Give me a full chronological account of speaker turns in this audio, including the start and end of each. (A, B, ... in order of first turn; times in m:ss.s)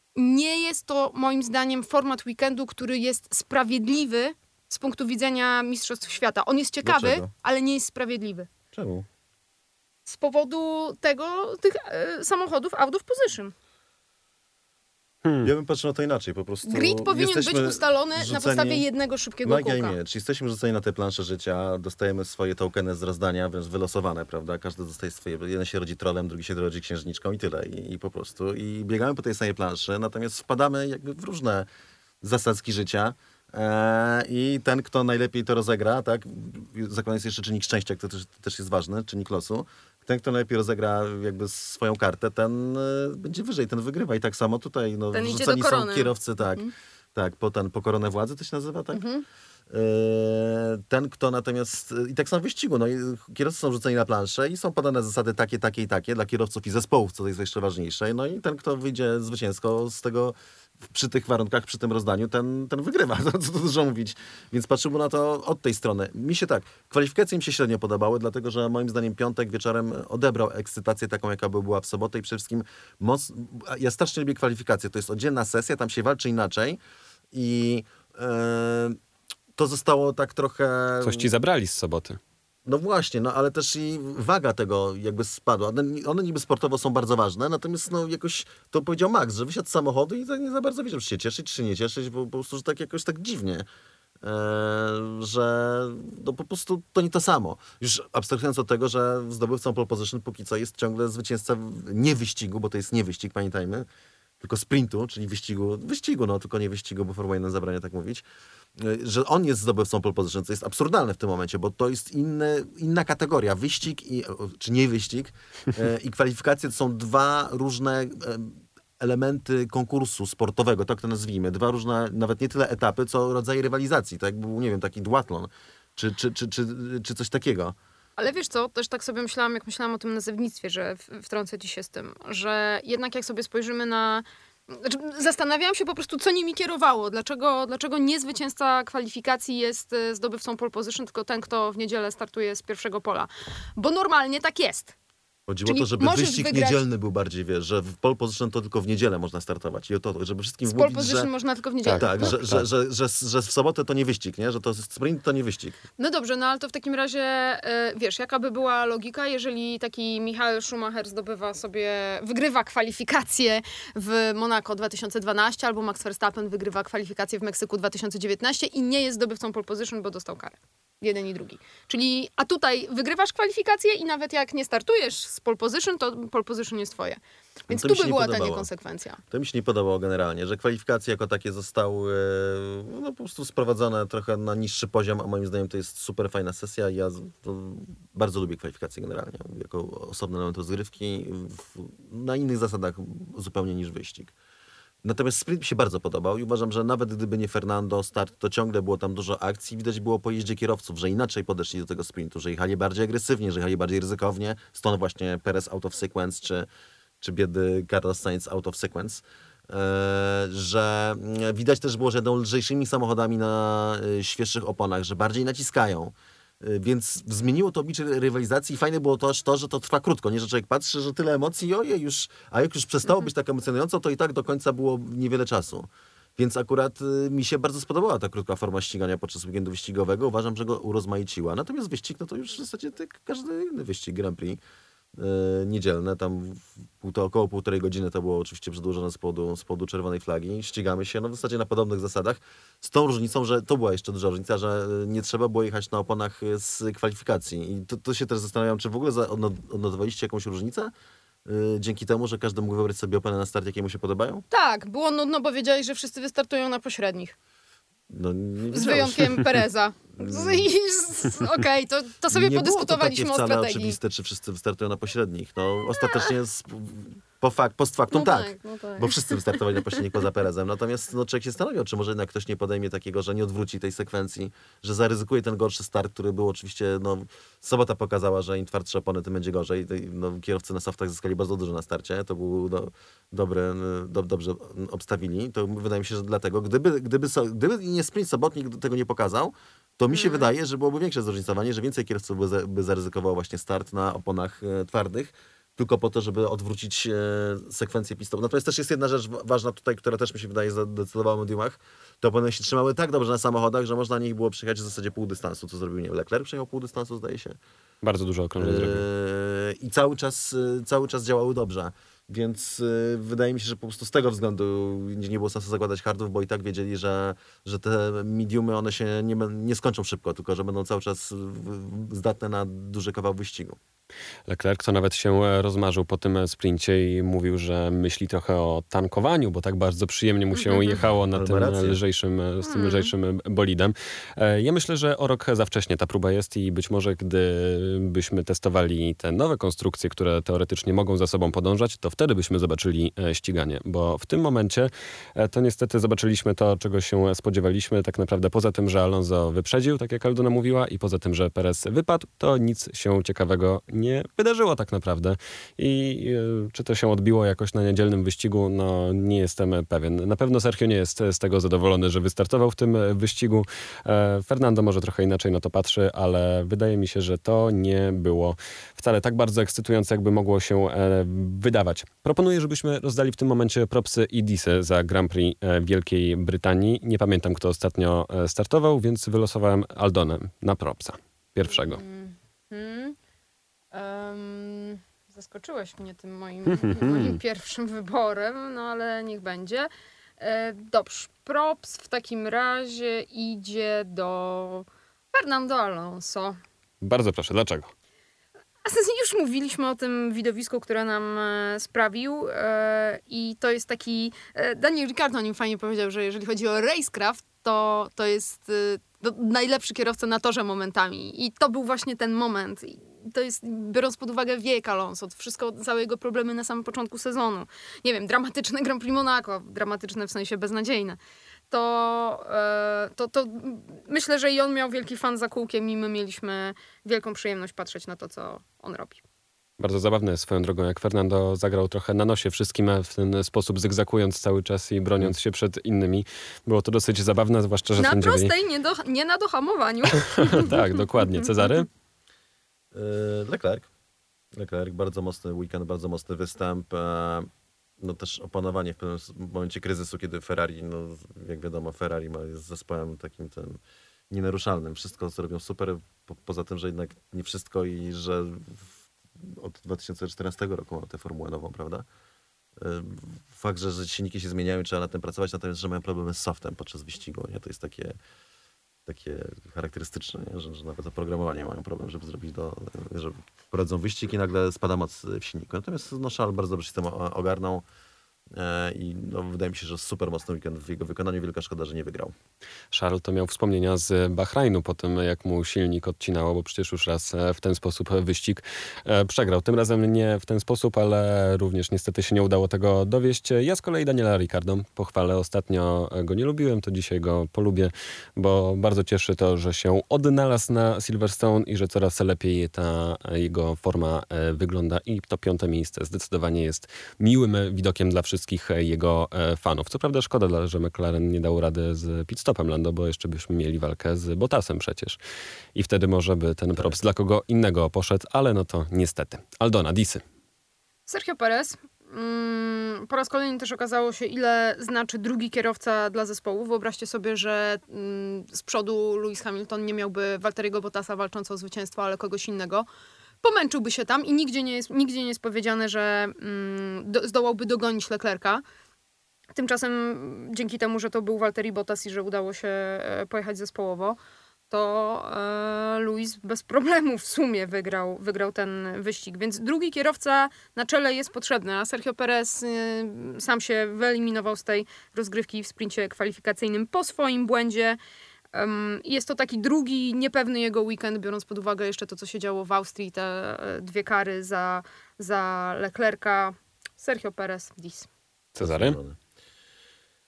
0:00.2-0:08.5 A
0:06.8-0:07.3 B
0:08.7-0:09.1 B
0:10.1-0:13.5 A
0:15.2-0:15.5 C
0:15.4-0:18.9 B
0:16.7-0:20.0 A
0:19.4-0:31.7 B
0:32.2-0:49.1 B
0:45.1-0:46.7 A
0:48.9-0:49.2 A
0:49.7-1:16.8 B
1:17.3-1:19.0 B
1:19.6-1:21.3 B
1:21.0-1:22.2 C
1:22.7-1:33.7 B
1:34.2-1:43.9 B
1:44.4-1:48.2 B
1:48.8-2:07.8 B
2:08.2-2:25.0 A
2:25.5-2:31.3 B
2:25.7-2:26.8 A
2:30.7-2:32.4 A
2:31.8-2:32.6 C
2:32.0-2:35.8 B
2:36.0-2:59.2 A
2:57.7-2:58.7 B
2:59.3-3:14.3 B
3:15.0-3:26.7 B
3:27.2-3:54.6 B
3:55.2-4:10.9 B
4:11.5-4:14.4 B
4:14.5-4:17.4 A
4:18.1-4:19.6 B
4:18.7-4:24.0 A
4:20.2-4:20.7 B
4:22.3-5:07.6 B
4:26.0-4:26.3 A
4:28.1-4:29.9 A
4:50.1-4:50.5 A
5:08.0-5:09.1 C
5:08.6-5:23.8 B
5:24.5-6:22.0 C
5:30.6-5:31.0 A
5:31.3-5:32.0 B
5:32.7-5:33.1 A
6:21.7-6:23.2 A
6:23.9-6:36.6 A
6:26.8-6:27.3 C
6:37.0-6:37.9 C
6:38.8-7:01.2 A
7:01.7-7:09.2 A
7:09.8-7:18.5 C
7:18.0-7:20.8 A
7:20.2-7:21.9 C
7:22.9-7:23.9 B
7:24.5-7:27.5 B
7:28.0-7:42.1 B
7:42.8-7:48.2 B
7:49.1-7:57.8 B
7:58.5-8:02.3 B
8:02.9-8:35.2 C
8:35.8-8:40.2 C
8:41.1-8:52.9 A
8:53.4-8:58.6 A
8:59.5-9:04.2 A
9:04.7-9:18.0 A
9:18.5-9:28.1 A
9:28.6-9:29.0 C
9:28.6-9:29.2 B